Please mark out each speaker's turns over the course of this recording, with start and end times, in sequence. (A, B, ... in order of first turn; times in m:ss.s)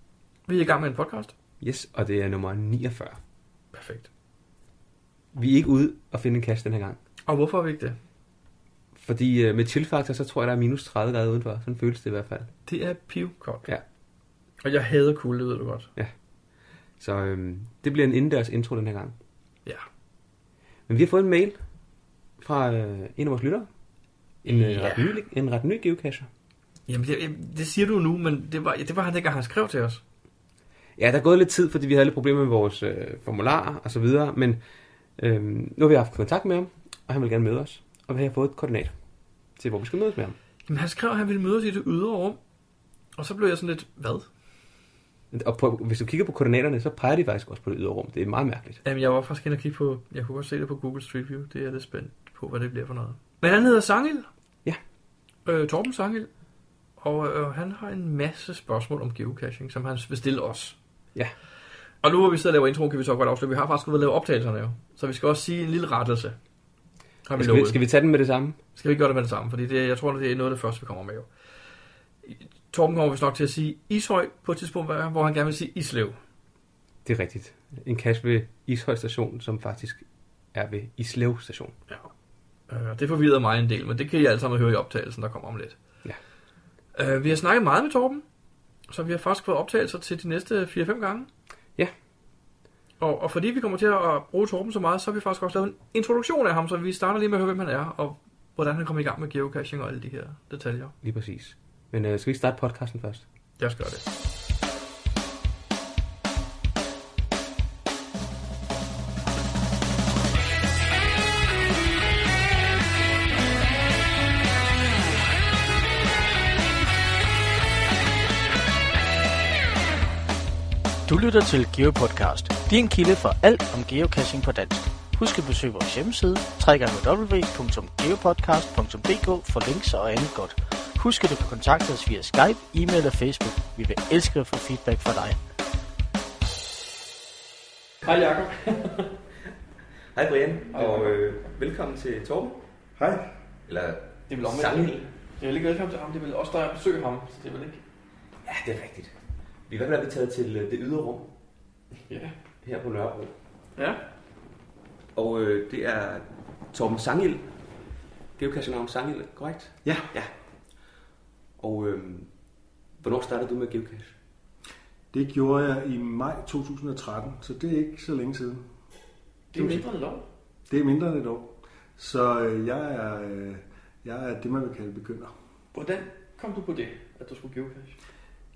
0:00.5-0:01.3 A
0:01.6-0:03.2 B
0:03.7-0:04.1 A
0:05.3-0:07.0 B
0:07.3-0:08.0 A
0:09.0-0:12.5 B
0:12.7-0:13.7 A
0:14.6-0:15.9 A
0:17.0-0:19.2 B
0:20.9-0:21.6 B
0:22.4-0:23.7 B
0:24.4-0:26.3 B
0:24.4-0:25.1 A
0:26.9-0:30.0 A
0:31.0-0:34.6 B
0:35.2-0:38.9 B
0:39.6-0:40.4 B
0:40.7-0:42.4 A
0:43.2-0:44.3 A
0:45.3-0:48.8 B
0:48.8-0:54.3 A
0:55.4-0:56.3 A
0:57.0-1:00.8 A
1:02.0-1:06.4 A
1:07.3-1:07.8 A
1:07.4-1:08.6 B
1:08.8-1:11.3 A
1:12.2-1:16.2 A
1:17.0-1:21.8 B
1:22.7-1:25.8 A
1:27.0-1:28.2 A
1:28.9-1:31.3 A
1:33.0-1:40.9 A
1:41.0-1:43.2 B
1:43.6-1:44.0 A
2:01.1-2:15.4 C
2:18.0-2:19.1 A
2:20.1-2:22.6 B
2:20.7-2:21.3 A
2:23.0-2:23.3 D
2:23.7-2:25.0 B
2:24.3-2:27.8 A
2:28.4-2:29.1 B
2:29.7-2:31.3 B
2:32.1-2:32.3 A
2:32.6-2:33.3 B
2:33.8-2:34.0 A
2:35.2-2:37.4 B
2:38.4-2:40.3 B
2:39.8-2:40.1 D
2:41.6-2:42.3 B
2:43.0-2:44.2 B
2:45.1-2:48.7 D
2:49.5-2:50.2 A
2:49.5-2:49.9 D
2:50.7-2:55.3 D
2:55.7-2:58.0 A